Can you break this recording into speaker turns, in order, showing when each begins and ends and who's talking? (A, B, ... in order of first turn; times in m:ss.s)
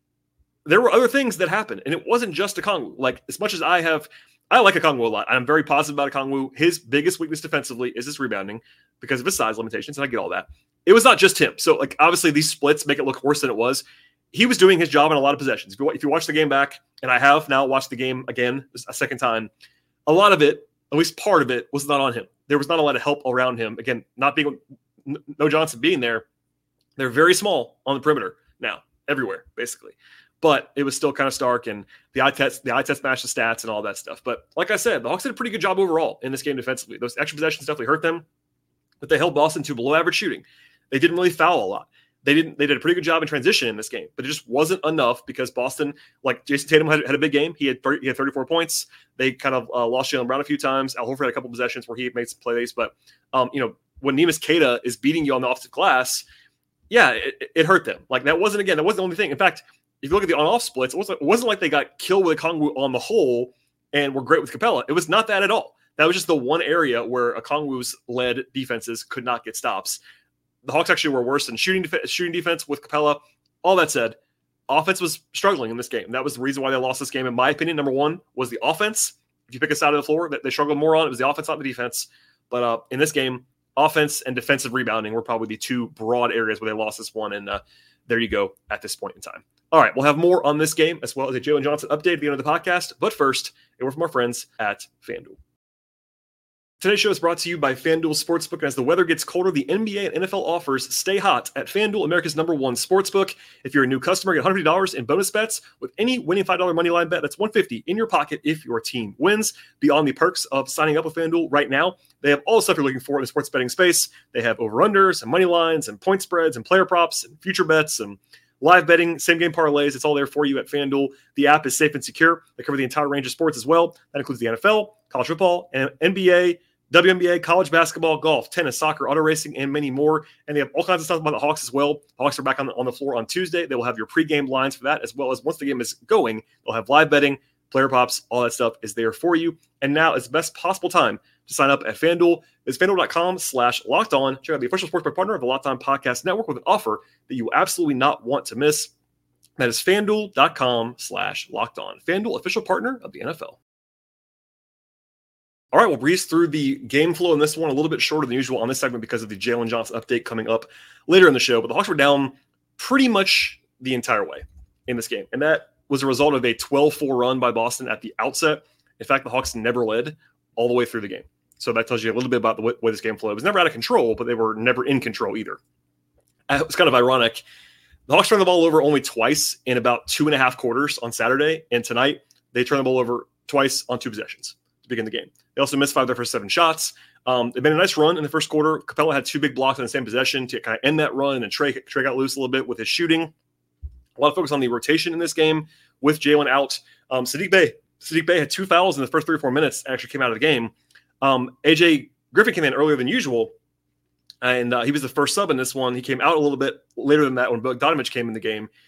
0:00.7-0:19.5 A
0:20.1-0:26.2 A
0:27.0-0:38.2 A
0:39.0-0:56.2 A
0:56.9-1:10.0 A
1:10.6-1:14.2 A
1:14.7-1:35.4 A
1:36.8-2:28.9 A
2:29.6-2:33.6 A
2:35.7-2:55.6 A
2:56.5-2:57.4 A
2:58.1-3:13.3 A
3:14.2-3:23.5 A
3:24.4-3:28.7 A